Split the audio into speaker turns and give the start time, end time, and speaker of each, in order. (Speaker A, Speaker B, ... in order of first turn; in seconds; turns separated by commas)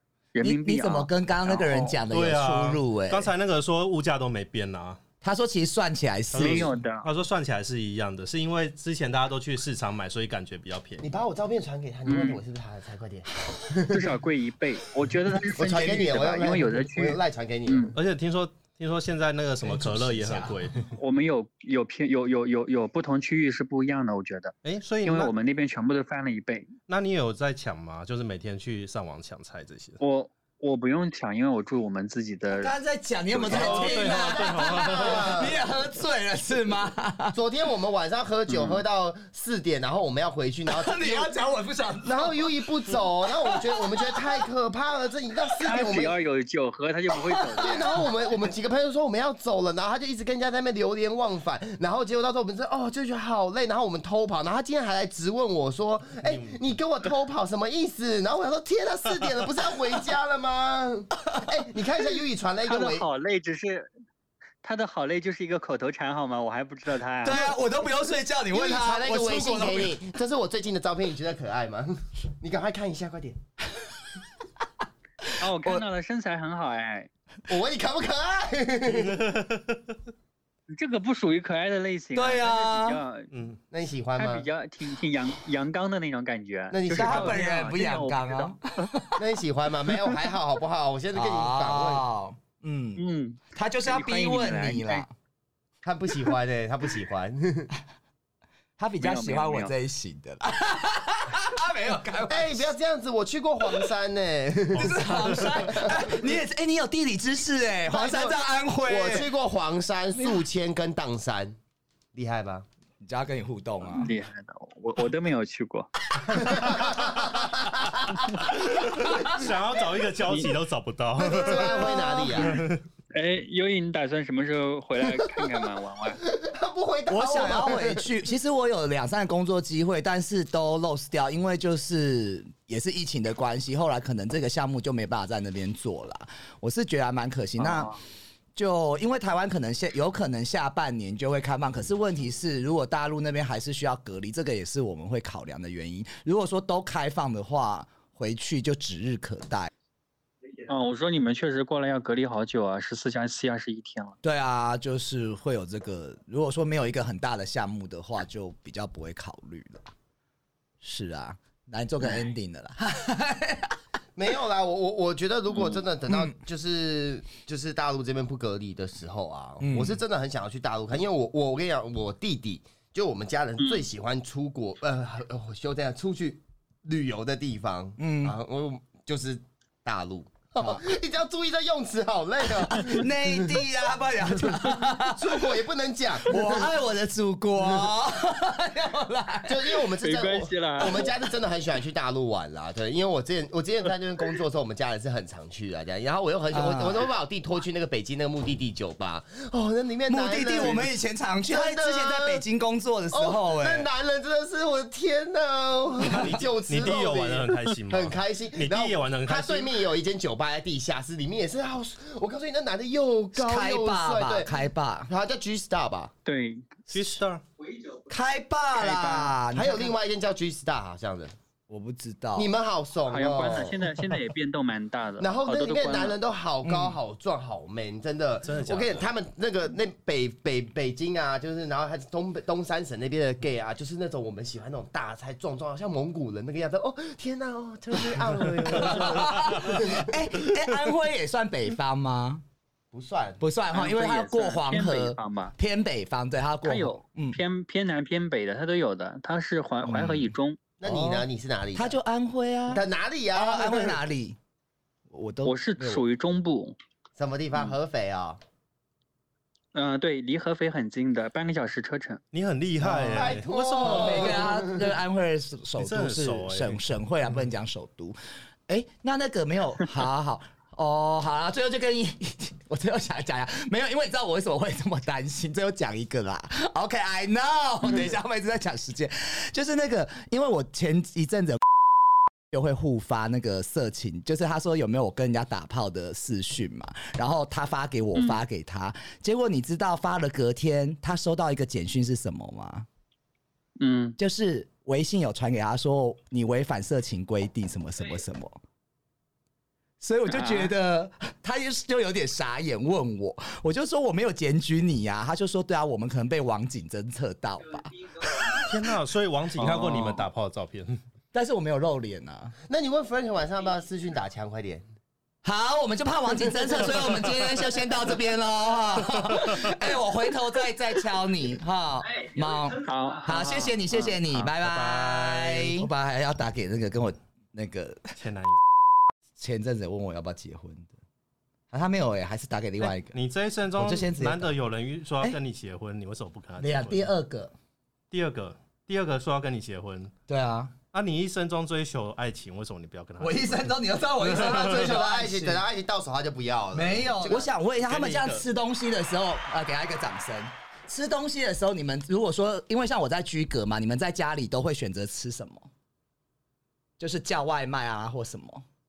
Speaker A: 0.3-2.0, Speaker B: 0.4-3.3, Speaker C: 2.1-5.0, Speaker B: 5.2-6.7, Speaker C: 6.3-11.1, Speaker A: 6.4-7.1, Speaker D: 11.0-14.1, Speaker A: 12.1-12.4, Speaker A: 13.9-17.9, Speaker D: 15.5-17.9, Speaker B: 15.6-16.1, Speaker C: 17.9-20.9, Speaker B: 19.7-20.5, Speaker A: 21.0-26.7, Speaker C: 24.6-25.3, Speaker C: 26.9-30.0, Speaker A: 30.0-32.7, Speaker B: 32.5-37.4, Speaker A: 33.3-33.7, Speaker D: 33.5-35.5, Speaker C: 33.5-35.5, Speaker D: 37.3-41.3, Speaker A: 38.5-38.8, Speaker B: 40.7-44.4, Speaker D: 42.0-46.1, Speaker B: 45.5-45.9, Speaker A: 45.6-47.9, Speaker B: 47.2-48.1, Speaker D: 47.6-63.0, Speaker C: 56.2-56.6, Speaker B: 61.2-61.5, Speaker A: 62.6-63.9, Speaker A: 64.6-67.5, Speaker B: 67.2-70.0, Speaker D: 68.5-73.4, Speaker B: 75.2-75.8, Speaker A: 75.4-77.1, Speaker D: 77.5-79.3, Speaker C: 78.9-79.8, Speaker A: 80.7-83.3, Speaker B: 82.1-83.0, Speaker C: 83.3-83.6, Speaker D: 83.7-84.5, Speaker A: 84.1-88.5, Speaker D: 86.7-87.4, Speaker B: 86.9-89.2, Speaker D: 89.2-92.0, Speaker B: 91.1-95.1, Speaker A: 93.0-95.0, Speaker D: 95.8-97.7, Speaker B: 98.8-102.7, Speaker A: 99.0-99.7, Speaker D: 102.3-106.1, Speaker B: 104.7-109.3, Speaker D: 107.9-111.6, Speaker B: 110.2-110.4, Speaker D: 112.1-112.7, Speaker B: 113.0-114.1, Speaker A: 113.8-115.9, Speaker D: 116.3-118.8, Speaker C: 118.7-122.8, Speaker D: 121.2-122.6, Speaker A: 123.1-126.2, Speaker D: 126.3-128.0, Speaker B: 127.1-137.9, Speaker A: 137.6-138.0, Speaker B: 138.5-149.7, Speaker A: 150.7-154.2, Speaker B: 154.2-159.8, Speaker B: 160.8-163.8, Speaker D: 164.2-183.6, Speaker B: 166.1-166.3, Speaker B: 169.6-170.0, Speaker A: 173.6-173.8, Speaker B: 178.0-178.4, Speaker B: 180.6-180.8, Speaker B: 182.5-185.6, Speaker D: 184.4-186.7, Speaker B: 186.2-189.9, Speaker D: 189.5-200.9, Speaker A: 190.0-191.1, Speaker B: 196.5-197.1, Speaker B: 200.1-203.9, Speaker D: 201.5-202.4, Speaker D: 203.1-216.1, Speaker C: 206.0-209.8, Speaker B: 213.3-215.1, Speaker A: 216.2-216.8, Speaker C: 216.9-217.4, Speaker B: 218.1-219.9, Speaker A: 218.8-219.3, Speaker D: 219.5-221.3, Speaker B: 221.7-222.5, Speaker D: 222.3-223.8, Speaker A: 223.1-226.2, Speaker D: 225.2-240.2, Speaker B: 226.6-226.9, Speaker C: 228.4-229.1, Speaker B: 238.6-242.4, Speaker C: 239.3-239.6, Speaker D: 242.9-243.4, Speaker B: 243.4-247.4, Speaker A: 243.7-245.5, Speaker A: 246.6-250.6, Speaker B: 249.9-254.4, Speaker D: 250.8-251.9, Speaker D: 252.7-254.0, Speaker B: 255.1-256.0, Speaker A: 255.4-256.8, Speaker D: 257.2-258.4, Speaker A: 259.7-262.2, Speaker C: 262.3-264.4, Speaker D: 262.9-264.9, Speaker B: 263.8-268.2, Speaker C: 265.8-266.8, Speaker B: 268.7-281.6, Speaker B: 282.5-292.9, Speaker A: 293.8-294.2, Speaker B: 294.2-298.6, Speaker B: 300.0-308.9, Speaker A: 300.3-300.7, Speaker C: 308.6-311.0, Speaker B: 309.6-310.2, Speaker B: 311.3-312.6, Speaker D: 312.7-314.8, Speaker B: 315.4-328.1, Speaker A: 322.8-324.5, Speaker C: 324.6-325.9, Speaker C: 328.1-328.6, Speaker B: 329.4-330.9, Speaker B: 331.7-333.1, Speaker C: 332.8-337.1, Speaker B: 333.8-334.5, Speaker B: 336.6-337.5, Speaker C: 338.1-340.1, Speaker B: 340.3-340.7, Speaker C: 340.9-344.9, Speaker B: 343.2-345.6, Speaker D: 344.3-347.5, Speaker B: 346.7-355.7, Speaker C: 347.9-348.4, Speaker B: 357.0-358.6